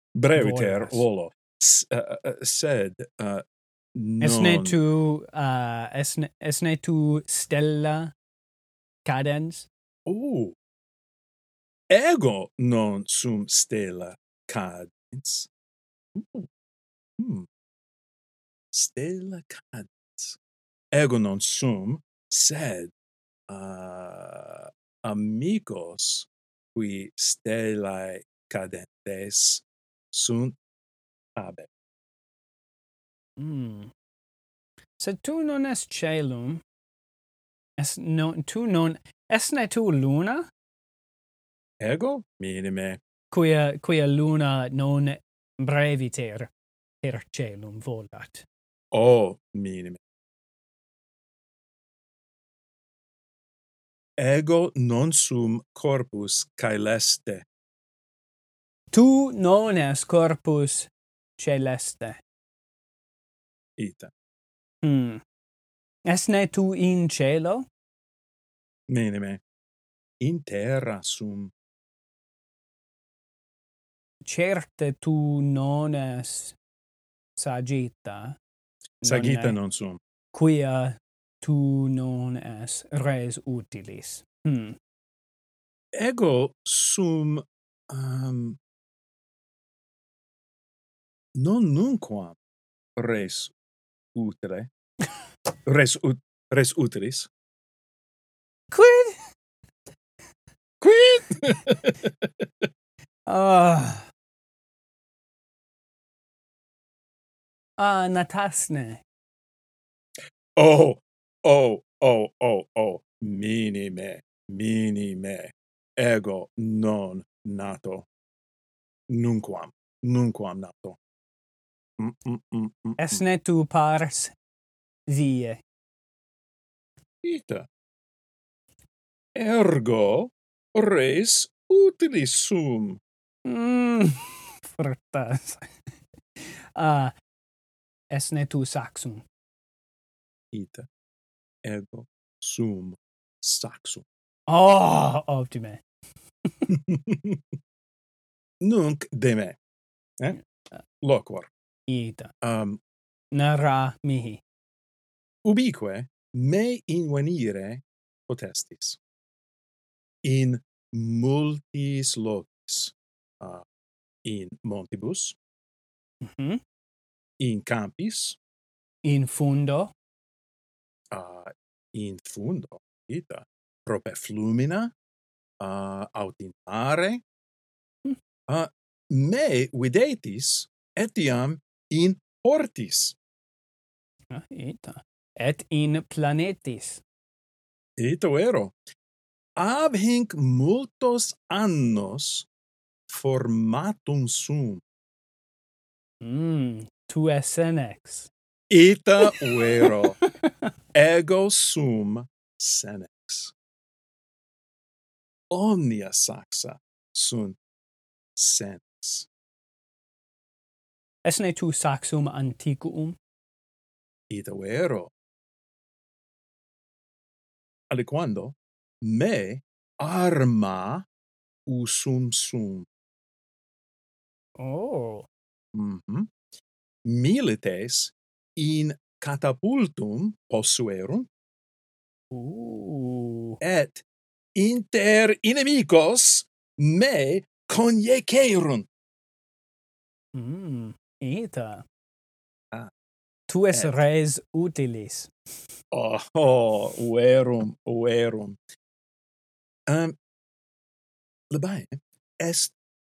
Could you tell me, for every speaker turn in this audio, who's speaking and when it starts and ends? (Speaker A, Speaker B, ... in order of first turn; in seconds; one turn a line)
Speaker A: 0.2-3.4
Speaker B: 0.3-1.1
Speaker A: 4.0-4.8
Speaker B: 4.2-8.1
Speaker B: 9.1-9.7
Speaker A: 10.1-10.6
Speaker A: 11.9-15.5
Speaker A: 16.1-16.5
Speaker A: 17.2-17.5
Speaker A: 18.7-20.4
Speaker A: 20.9-22.9
Speaker A: 23.5-30.6
Speaker A: 31.4-31.7
Speaker B: 33.4-33.9
Speaker B: 35.0-36.6
Speaker B: 37.8-40.5
Speaker A: 41.8-43.0
Speaker B: 43.3-48.5
Speaker A: 48.9-50.0
Speaker A: 54.2-57.5
Speaker B: 58.9-62.2
Speaker A: 63.8-64.1
Speaker B: 64.8-65.2
Speaker B: 66.1-67.7
Speaker A: 68.9-69.4
Speaker A: 70.2-71.5
Speaker B: 74.2-76.6
Speaker B: 77.4-78.4
Speaker B: 79.0-79.6
Speaker A: 79.0-80.0
Speaker B: 80.3-84.8
Speaker A: 85.9-88.6
Speaker A: 91.4-92.4
Speaker A: 93.0-93.5
Speaker A: 94.1-94.7
Speaker A: 95.7-97.3
Speaker B: 98.7-99.2
Speaker A: 100.8-102.7
Speaker B: 103.3-104.1
Speaker B: 107.8-109.0
Speaker A: 110.6-118.1
Speaker A: 119.1-121.0
Speaker A: 122.0-123.2
Speaker B: 123.0-124.3
Speaker B: 125.1-125.6
Speaker A: 127.2-127.7
Speaker A: 129.3-133.0
Speaker B: 133.4-135.8
Speaker B: 136.4-137.1
Speaker B: 138.1-139.2
Speaker A: 140.5-140.9
Speaker A: 141.6-144.1
Speaker B: 144.5-145.8
Speaker A: 146.7-147.4
Speaker A: 148.6-149.6
Speaker A: 151.0-151.5
Speaker B: 151.9-152.3
Speaker A: 152.4-152.8
Speaker B: 153.3-154.4
Speaker A: 155.4-159.0
Speaker A: 160.2-163.7
Speaker A: 164.2-165.4
Speaker B: 166.2-166.6
Speaker A: 167.4-168.4
Speaker B: 169.0-169.9
Speaker A: 171.1-174.9
Speaker A: 175.6-177.2
Speaker A: 178.5-183.2
Speaker B: 184.3-187.0
Speaker A: 188.0-188.8
Speaker A: 189.6-192.5
Speaker A: 193.1-194.8
Speaker B: 196.2-198.3
Speaker A: 198.7-200.2
Speaker B: 199.3-200.3
Speaker A: 200.9-203.5
Speaker A: 205.5-207.6
Speaker A: 208.4-209.3
Speaker B: 211.2-213.2
Speaker A: 214.3-215.1
Speaker A: 217.9-221.1
Speaker A: 221.7-222.9
Speaker B: 224.6-225.3
Speaker A: 225.7-226.3
Speaker A: 227.1-231.3
Speaker B: 232.3-233.6
Speaker A: 233.6-234.1
Speaker A: 234.6-238.9
Speaker B: 240.3-241.8
Speaker B: 243.5-245.3
Speaker A: 243.7-244.0
Speaker A: 245.9-248.6
Speaker A: 249.9-250.2
Speaker A: 251.5-252.8